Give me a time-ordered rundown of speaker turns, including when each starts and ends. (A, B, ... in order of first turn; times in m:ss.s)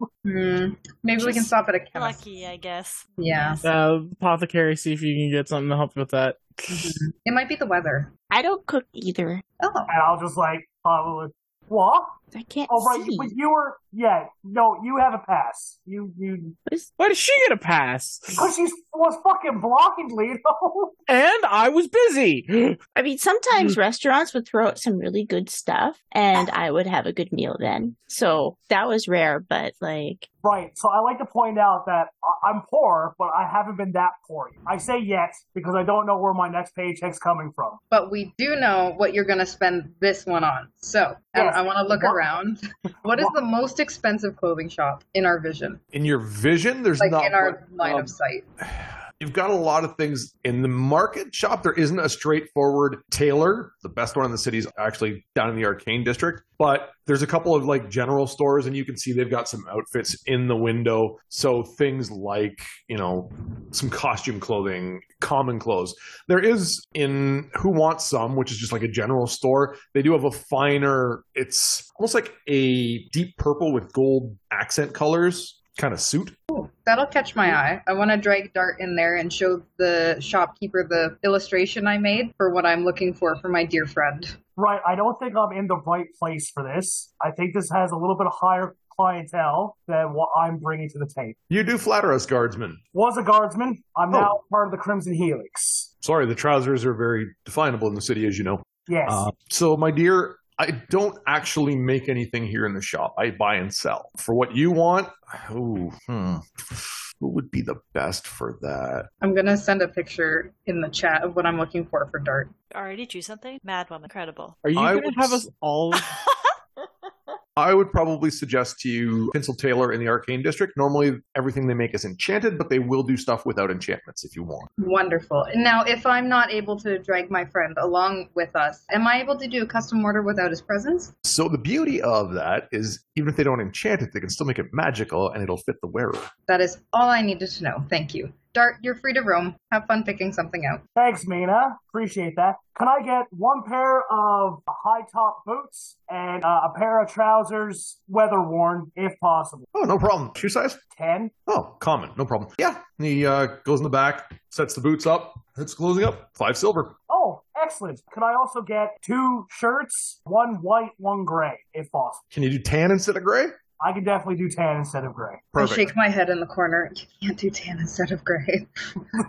0:00.2-0:02.2 A
0:01.2-0:03.6 B
0:03.2-0:03.6 A
0:03.6-0:07.0 C
0:06.7-0:08.1 A
0:08.3-0:09.4 D
0:09.6-0:09.9 A
0:09.9-0:12.2 E
0:12.3-0:13.3 D
0:12.7-0:16.6 E
0:17.0-0:18.5 C
0:18.3-0:20.9 E
0:21.1-0:22.8 C
0:22.9-0:30.2 D
0:30.4-0:37.8 E
0:37.9-0:45.8 A
0:41.3-0:42.2 E
0:45.9-1:16.4 F
0:47.0-0:48.5 A
1:16.5-1:24.4 A
1:24.6-1:31.4 E
1:31.5-1:32.8 F
1:32.9-1:35.9 E
1:36.0-1:49.1 F
1:38.9-1:39.3 E
1:49.2-1:52.5 A
1:52.7-1:54.6 B
1:54.6-1:56.1 C
1:54.8-1:55.4 F
1:56.0-1:56.3 B
1:57.6-2:04.7 F
2:04.8-2:11.1 A
2:11.2-2:16.3 F
2:16.5-2:20.8 A
2:21.0-2:29.7 E
2:29.7-2:30.8 F
2:30.9-2:31.3 E
2:31.5-2:37.0 F
2:37.1-2:42.2 E
2:42.3-2:43.5 F
2:43.8-2:45.5 E
2:45.5-2:45.9 F
2:45.6-2:49.2 A